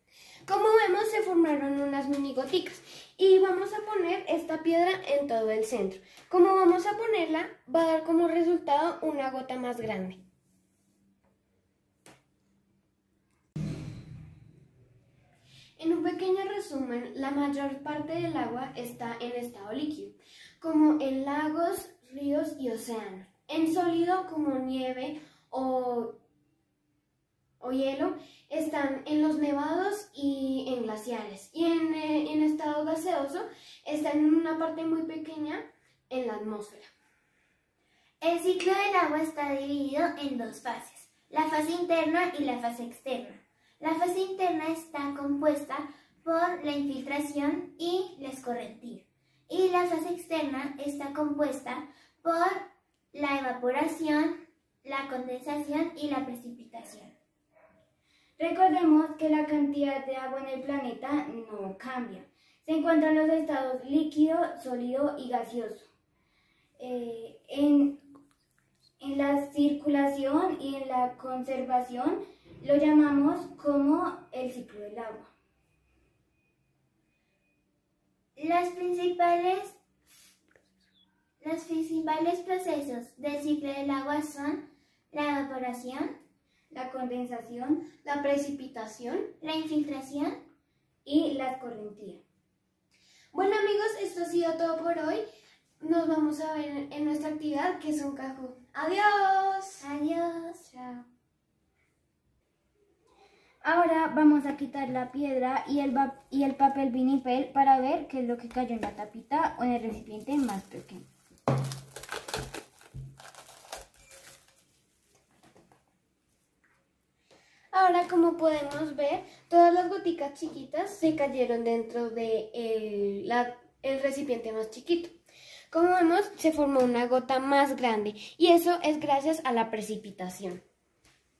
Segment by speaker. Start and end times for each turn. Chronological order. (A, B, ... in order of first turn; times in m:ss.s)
0:00.4-0:10.2 A
0:15.8-0:26.2 A
0:27.6-0:36.9 A
0:38.2-0:57.1 B
0:58.4-1:05.9 C
1:06.8-1:08.0 C
1:09.0-1:15.3 C
1:18.4-1:19.8 B
1:21.4-1:26.1 B
1:26.7-1:27.9 C
1:28.0-1:29.3 A
1:29.4-1:30.4 B
1:31.0-1:32.2 C
1:33.3-1:35.2 A
1:35.8-1:39.8 A
1:39.8-1:40.6 B
1:40.6-1:41.0 A
1:43.6-1:51.0 C
1:57.7-2:05.1 A
2:05.7-2:10.6 A